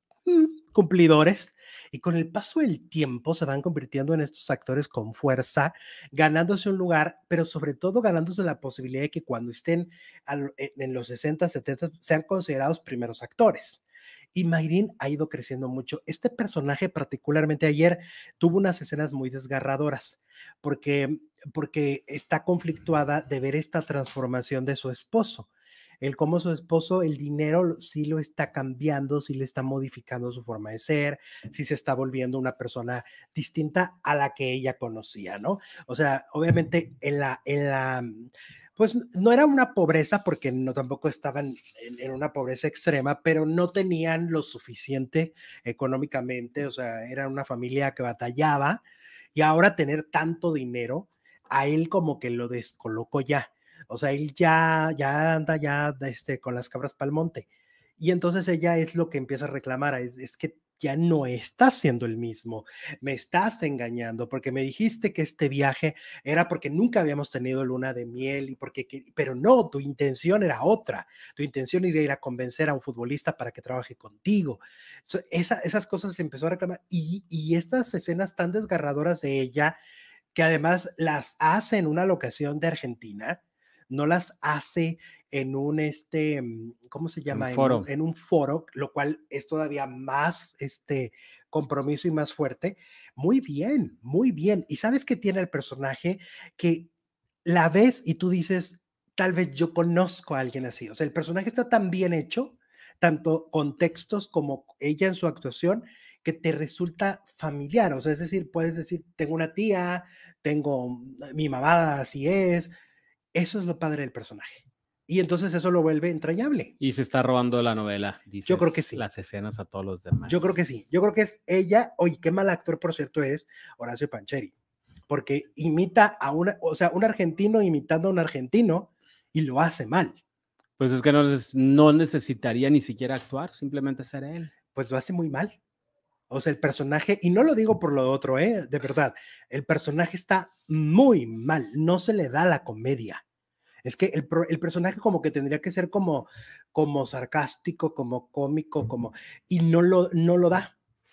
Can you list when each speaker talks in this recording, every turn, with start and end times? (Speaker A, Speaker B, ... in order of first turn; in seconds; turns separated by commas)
Speaker A: 0.3-13.8, Speaker A: 14.3-25.5, Speaker A: 26.0-48.8, Speaker A: 49.3-57.5, Speaker A: 58.0-79.8, Speaker A: 80.3-83.4, Speaker A: 83.9-96.9, Speaker B: 87.3-87.9, Speaker A: 97.5-112.7, Speaker A: 113.3-116.7, Speaker B: 116.8-120.5, Speaker A: 118.5-119.0, Speaker A: 120.3-124.5, Speaker A: 125.1-130.2, Speaker B: 130.8-134.5, Speaker A: 134.7-135.6, Speaker A: 136.3-143.2, Speaker A: 143.8-150.7